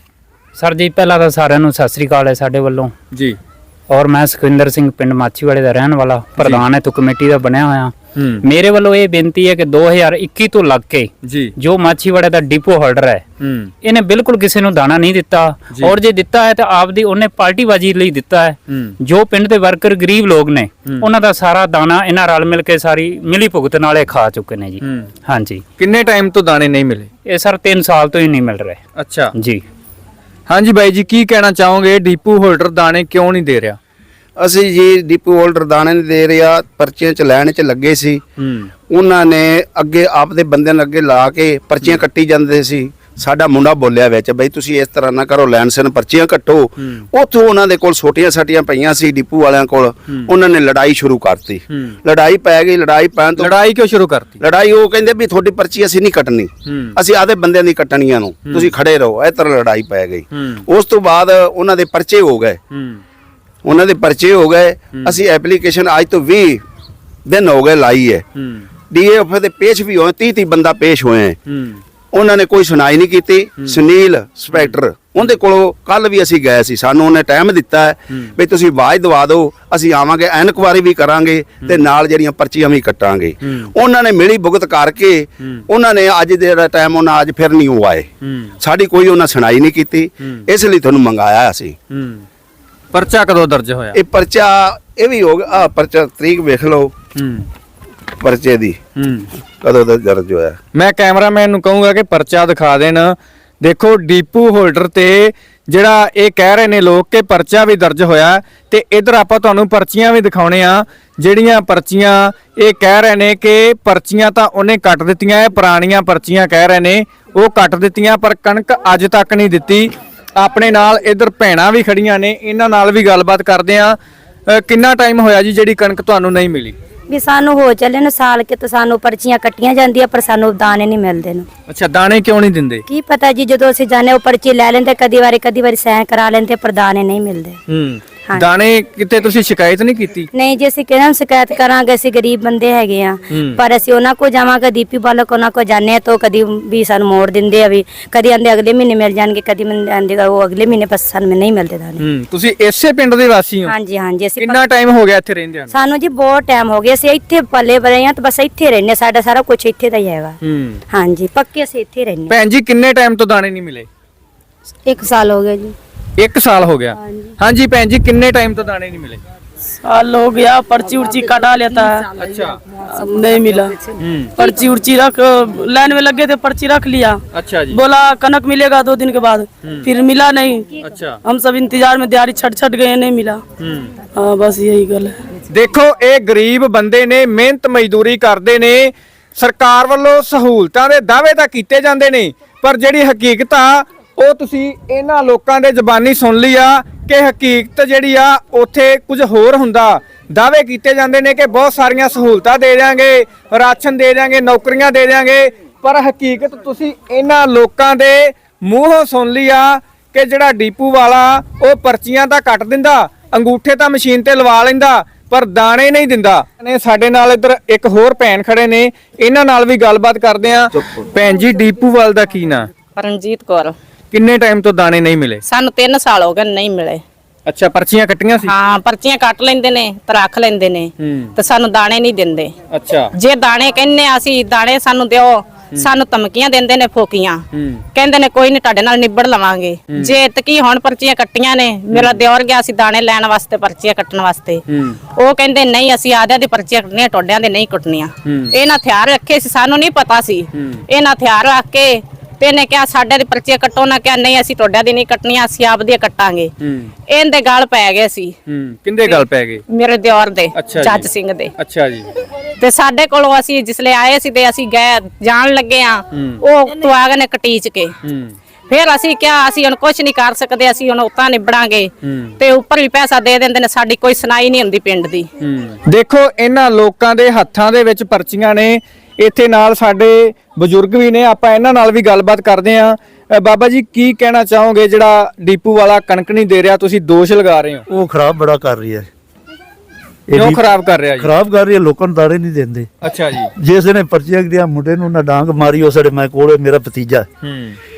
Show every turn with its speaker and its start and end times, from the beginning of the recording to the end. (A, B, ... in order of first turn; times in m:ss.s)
0:00.6-0:02.9 A
0:03.1-0:03.4 B
0:03.9-0:13.2 A
0:06.4-0:06.6 B
0:08.2-0:08.4 B
0:11.2-0:11.5 B
0:13.4-0:13.7 B
0:13.8-0:25.6 A
0:15.7-0:16.0 B
0:18.7-0:19.0 B
0:24.8-0:25.1 B
0:25.8-0:27.1 B
0:27.2-0:28.8 A
0:29.0-0:29.3 B
0:29.4-0:29.6 A
0:30.5-0:33.8 B
0:34.4-0:38.2 C
0:38.4-0:38.7 B
0:38.9-0:53.5 C
0:46.8-0:47.0 B
0:51.7-0:52.0 B
0:53.4-0:54.4 B
0:54.4-1:02.6 C
0:56.6-0:57.0 B
0:58.5-0:58.7 B
1:00.3-1:00.6 B
1:02.7-1:03.0 B
1:03.6-1:06.6 C
1:04.9-1:05.2 B
1:07.3-1:08.2 C
1:08.4-1:08.7 B
1:08.9-1:11.4 C
1:11.5-1:11.8 B
1:12.1-1:28.1 C
1:14.5-1:15.3 B
1:23.4-1:23.7 B
1:28.2-1:28.6 B
1:28.6-1:31.8 C
1:30.2-1:30.5 B
1:31.9-1:32.2 B
1:32.9-1:34.0 B
1:34.0-1:36.9 C
1:37.2-1:37.5 B
1:38.2-1:38.8 C
1:39.0-1:39.3 B
1:39.6-1:40.6 C
1:40.8-2:06.8 B
2:07.1-2:11.5 D
2:11.7-2:12.8 B
2:12.9-2:17.6 D
2:17.7-2:20.3 B
2:20.3-2:32.0 D
2:23.3-2:23.6 B
2:32.0-2:33.8 B
2:33.7-2:34.6 D
2:34.4-2:35.8 B
2:35.7-2:42.3 D
2:40.4-2:40.8 B
2:42.3-2:43.9 B
2:44.8-2:45.8 D
2:46.2-2:49.2 B
2:49.8-2:52.1 E
2:52.2-2:52.6 B
2:52.8-2:53.8 E
2:54.0-2:54.4 B
2:54.4-3:00.7 E
2:57.3-2:57.8 B
3:00.8-3:01.2 B
3:01.2-3:03.4 E
3:03.6-3:03.9 B
3:04.2-3:05.2 E
3:05.5-3:42.7 B
3:43.0-3:43.8 F
3:44.1-3:45.4 B
3:45.5-3:47.0 F
3:47.5-3:48.5 B
3:48.5-3:52.5 F
3:51.0-3:51.3 B
3:52.7-3:53.1 B
3:53.2-3:57.4 F
3:57.5-3:57.8 B
3:58.0-4:04.6 F
3:59.9-4:00.1 B
4:01.9-4:02.2 B
4:04.7-4:05.0 B
4:05.2-4:16.5 F
4:08.2-4:08.6 B
4:10.5-4:10.8 B
4:16.6-4:16.9 B
4:17.1-4:18.4 F
4:18.5-4:19.6 B
4:19.7-4:21.5 F
4:20.5-4:22.1 B
4:22.6-4:27.9 F
4:26.1-4:26.4 B
4:28.0-4:28.4 B
4:28.7-4:35.3 F
4:32.0-4:32.4 B
4:35.4-4:47.8 B
4:47.9-4:49.1 G
4:50.3-4:50.6 G
4:50.3-4:51.3 B
4:51.2-4:52.9 G
4:53.0-4:53.5 B
4:53.6-4:57.3 G
4:57.4-4:57.8 B